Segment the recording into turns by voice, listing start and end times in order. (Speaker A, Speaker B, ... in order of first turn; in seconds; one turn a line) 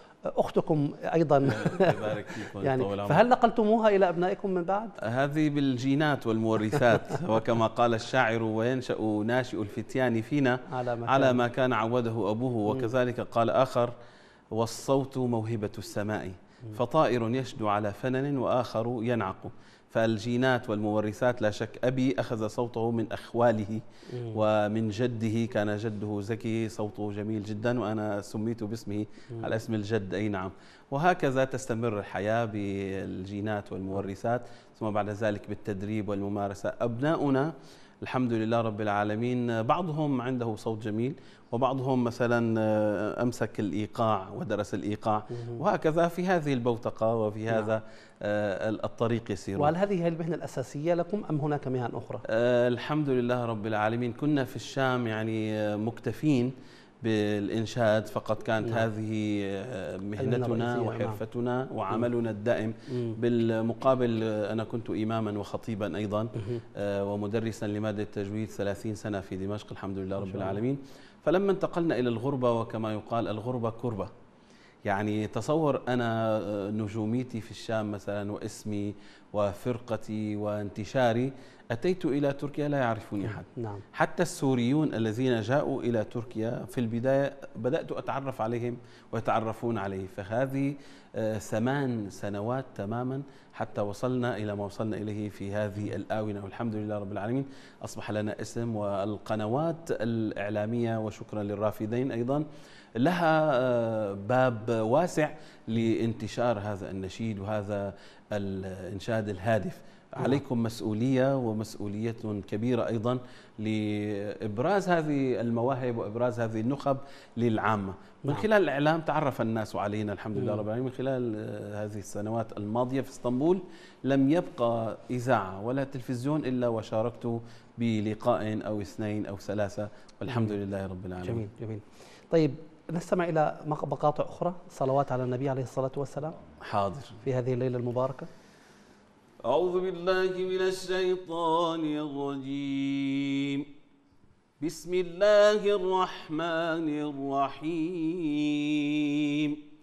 Speaker A: 0.3-5.0
Speaker B: 1.4-3.2
Speaker B: 5.0-13.9
Speaker A: 10.7-11.4
Speaker B: 14.6-37.5
Speaker B: 38.0-49.7
Speaker A: 49.6-52.2
Speaker B: 52.3-74.1
Speaker A: 60.2-61.2
Speaker A: 70.2-70.5
Speaker B: 74.9-102.5
Speaker A: 83.5-83.8
Speaker B: 103.0-131.5
Speaker A: 131.2-136.3
Speaker B: 136.6-137.1
Speaker A: 137.2-138.3
Speaker C: 139.5-143.7
Speaker C: 144.6-149.6